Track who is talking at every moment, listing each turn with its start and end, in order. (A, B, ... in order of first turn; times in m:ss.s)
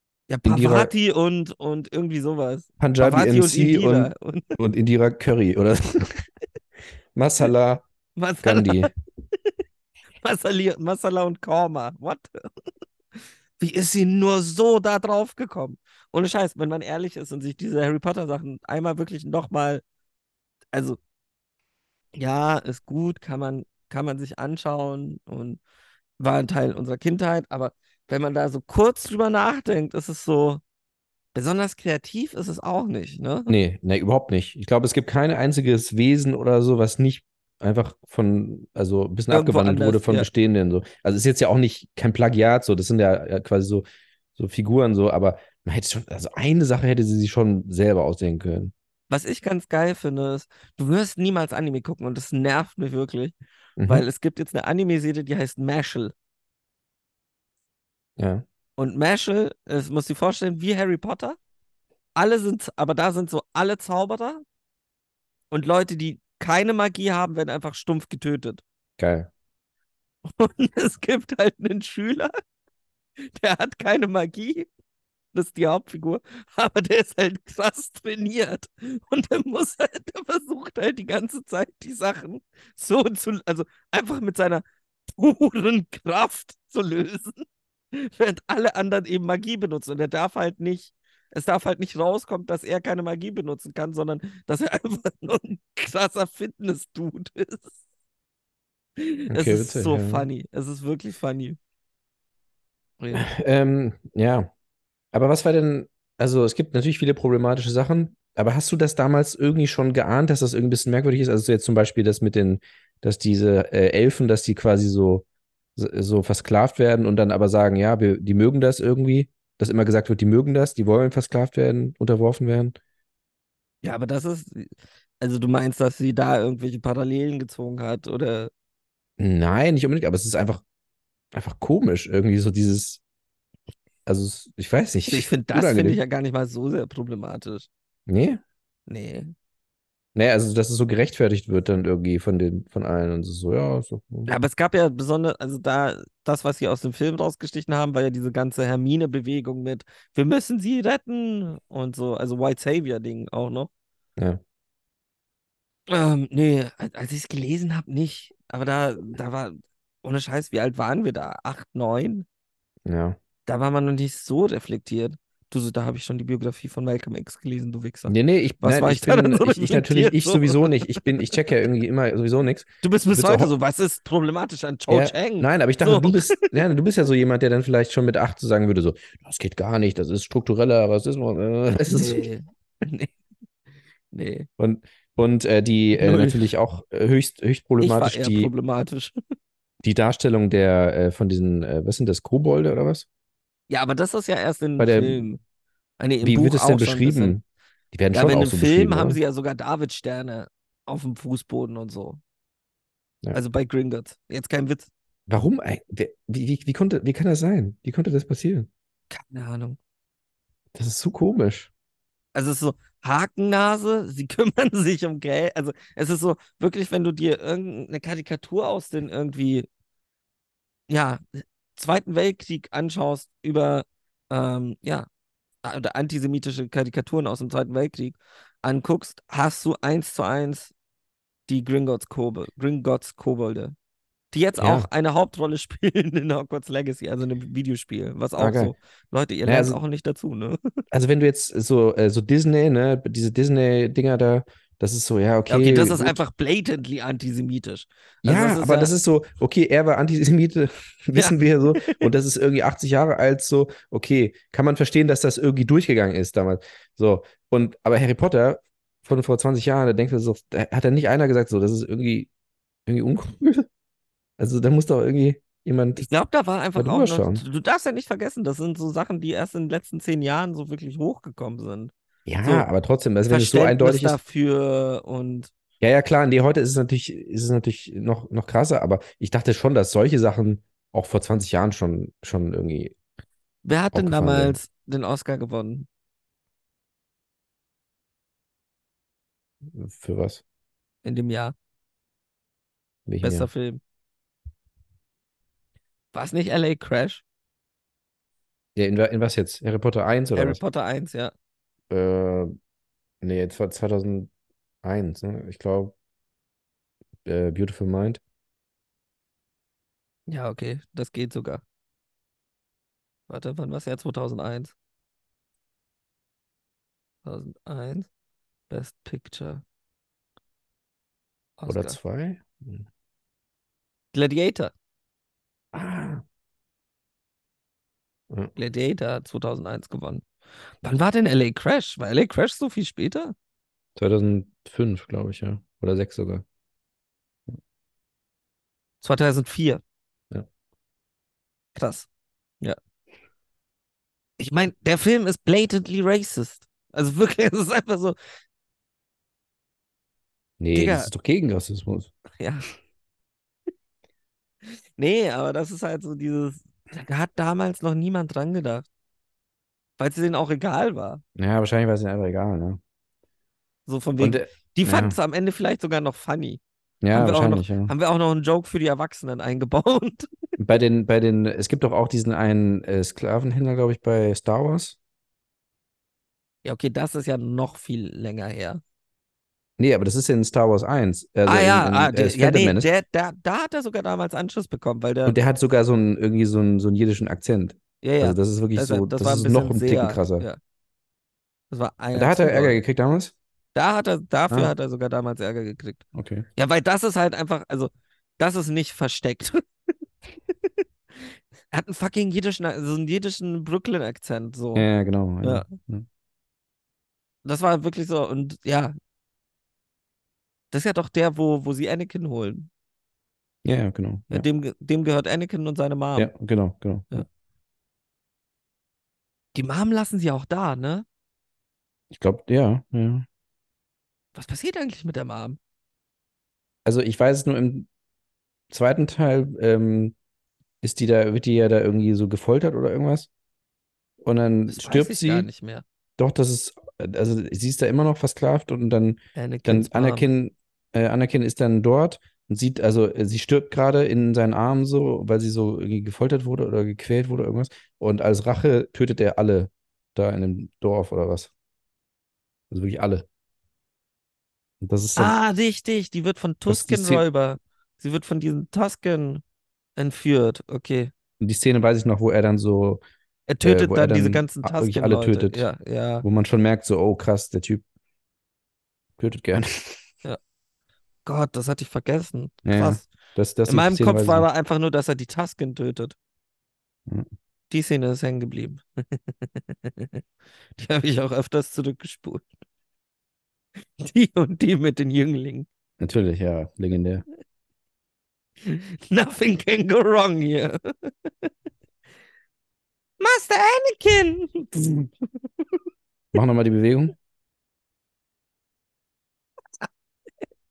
0:00.3-0:04.6 A
0:00.4-0:00.9 B
0:02.8-0:06.2 B
0:07.1-0:07.8 B
0:08.2-0:08.9 A
0:08.4-0:08.9 B
0:10.2-0:12.3 A
0:13.6-0:19.8 A
0:20.7-0:21.0 A
0:22.2-0:25.6 A
0:26.2-0:30.6 A
0:31.3-0:33.5 A
0:33.5-0:43.8 B
0:39.3-0:40.3 A
0:44.4-0:48.7 B
0:49.1-0:53.3 A
0:53.8-0:54.0 B
0:53.8-0:56.1 A
0:58.2-0:58.4 B
0:58.8-1:01.4 A
1:02.2-1:04.4 A
1:05.5-1:08.6 A
1:09.0-1:09.3 B
1:10.3-1:12.3 A
1:13.3-1:14.7 A
1:15.3-1:37.7 A
1:39.0-1:41.6 A
1:39.3-1:40.3 B
1:43.0-1:43.3 A
1:43.1-1:44.5 B
1:45.1-1:55.2 B
1:55.8-2:02.7 B
2:03.8-2:08.5 A
2:09.2-2:10.6 B
2:11.3-2:13.0 B
2:14.0-2:16.0 B
2:15.1-2:17.7 A
2:18.1-2:18.4 B
2:18.9-2:19.3 A
2:20.1-2:24.3 B
2:24.3-2:33.7 A
2:35.9-2:42.2 A
2:42.8-2:43.2 B
2:43.4-2:51.1 A
2:48.1-2:53.5 B
2:52.8-2:56.6 A
2:54.9-3:02.2 B
3:01.9-3:03.1 A
3:04.1-3:04.5 A
3:04.6-3:08.5 B
3:05.9-3:06.5 A
3:07.8-3:09.2 A
3:09.8-3:13.0 B
3:13.7-3:15.4 A
3:14.8-3:15.2 B
3:16.0-3:17.4 A
3:16.2-3:19.2 B
3:18.1-3:22.2 A
3:23.3-3:24.9 A
3:25.3-3:28.7 B
3:29.1-3:29.8 A
3:30.7-3:31.7 B
3:32.3-3:39.7 A
3:40.9-3:45.1 A
3:45.6-3:50.7 A
3:51.5-3:53.7 A
3:54.3-4:00.6 A
3:54.6-3:54.9 B
3:58.4-3:58.7 B
3:59.4-3:59.8 B
4:00.9-4:06.2 B
4:05.5-4:08.9 A
4:08.2-4:22.3 B
4:11.1-4:12.1 A
4:22.8-4:23.7 B
4:24.4-4:26.1 B
4:26.0-4:31.9 A
4:26.7-4:27.4 B
4:32.3-4:34.2 B
4:32.4-4:32.7 A
4:33.3-4:35.5 A
4:35.8-4:42.9 B
4:43.6-4:45.9 A
4:43.9-4:44.6 B
4:49.7-4:50.4 B
4:51.0-4:51.5 A
4:53.1-4:53.5 B
4:53.2-4:53.8 A
4:56.1-4:57.2 A
4:58.8-5:00.6 B
5:00.3-5:01.3 A
5:01.9-5:02.5 B
5:03.2-5:04.3 B
5:04.8-5:05.9 B
5:07.2-5:08.2 B
5:10.3-5:11.6 A
5:13.3-5:14.7 A
5:17.2-5:18.1 A
5:18.7-5:19.6 A
5:21.6-5:22.0 A
5:21.7-5:22.8 B
5:24.1-5:24.7 A
5:25.7-5:26.2 B
5:28.6-5:30.2 A
5:30.8-5:33.3 A
5:34.0-5:36.4 B
5:39.0-5:39.8 A
5:41.7-5:42.1 A
5:44.4-5:48.2 A
5:50.6-5:52.1 B
5:50.7-5:51.1 A
5:52.4-5:52.7 A
5:54.6-5:58.8 A
6:00.0-6:01.2 A
6:01.4-6:02.8 B
6:03.9-6:06.6 A
6:04.2-6:05.2 B
6:07.0-6:07.9 B
6:07.1-6:10.3 A
6:10.6-6:15.0 B
6:16.6-6:18.8 A
6:19.8-6:22.9 B
6:21.5-6:25.4 A
6:25.2-6:30.4 B
6:28.0-6:30.6 A
6:31.7-6:32.8 A
6:32.1-6:33.3 B
6:33.7-6:36.0 A
6:36.1-6:36.4 B
6:36.6-6:39.6 A
6:41.2-6:44.9 A
6:44.7-6:46.0 B
6:45.4-6:45.7 A
6:47.4-6:48.9 A
6:50.7-6:52.7 A
6:53.6-6:54.5 B
6:54.3-6:56.3 A
6:56.2-6:57.2 B
6:59.5-7:01.0 A
7:02.1-7:03.2 B
7:04.3-7:05.6 A
7:06.8-7:07.9 B
7:08.7-7:10.1 B
7:10.8-7:13.3 B
7:14.2-7:15.5 B
7:14.7-7:15.8 A
7:16.2-7:31.5 B
7:19.4-7:20.3 A
7:32.7-7:33.3 B
7:34.8-7:35.3 B
7:35.2-7:39.4 A
7:36.7-7:37.2 B
7:40.0-7:41.1 A
7:41.4-7:43.0 B
7:43.5-7:46.2 A
7:43.6-7:45.6 B
7:46.2-7:47.8 B
7:49.2-7:50.0 B
7:51.2-7:53.1 A
7:52.6-7:54.4 B
7:53.6-7:56.1 A
7:57.7-8:00.2 A
8:00.8-8:02.5 A
8:03.8-8:05.7 A
8:06.0-8:07.2 B
8:08.6-8:11.5 A
8:13.2-8:15.1 A
8:16.3-8:17.1 B